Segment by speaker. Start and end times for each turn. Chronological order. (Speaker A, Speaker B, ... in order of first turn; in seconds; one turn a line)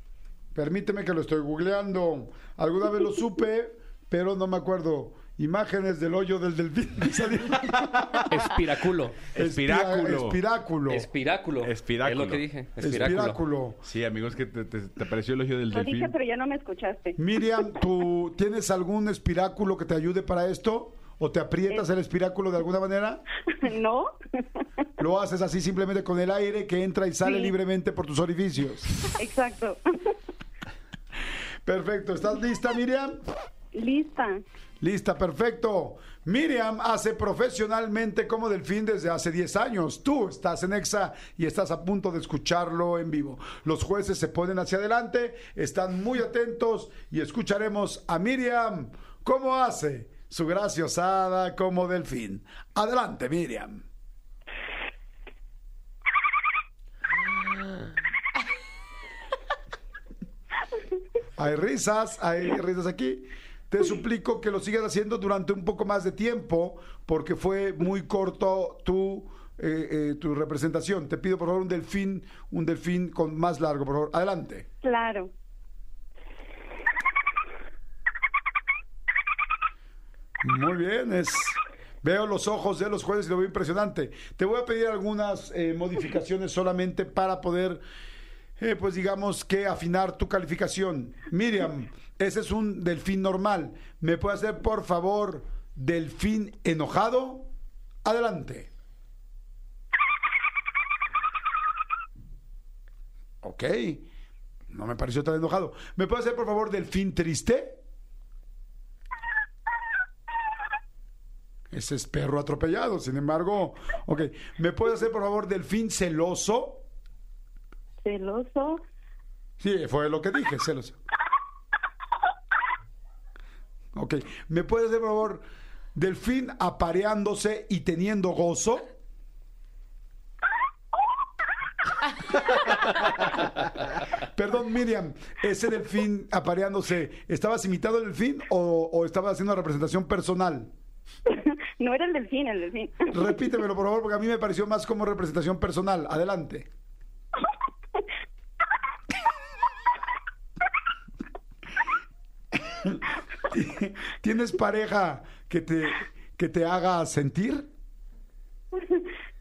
Speaker A: 0.5-8.3
Speaker B: 8.3-9.2
Speaker C: 9.3-10.4
Speaker A: 9.4-11.1
Speaker B: 10.9-13.4
Speaker C: 11.6-12.4
Speaker A: 12.8-13.8
Speaker C: 13.8-16.1
Speaker D: 15.7-17.2
Speaker A: 17.2-23.2
Speaker D: 23.6-24.1
Speaker A: 25.0-29.1
Speaker D: 27.2-27.5
Speaker D: 29.2-29.8
Speaker A: 31.6-33.2
Speaker D: 33.7-34.4
Speaker A: 34.8-53.8
Speaker A: 61.4-74.7
Speaker D: 74.8-75.3
Speaker A: 80.4-87.8
Speaker A: 88.6-97.5
Speaker A: 98.0-98.7
Speaker A: 103.4-104.1
Speaker A: 104.7-107.8
Speaker A: 111.7-116.8
Speaker D: 118.0-118.8
Speaker A: 119.6-121.0
Speaker A: 123.9-128.9
Speaker A: 134.3-140.7
Speaker D: 141.3-143.3
Speaker A: 143.1-146.7
Speaker A: 152.6-157.7
Speaker D: 158.8-159.1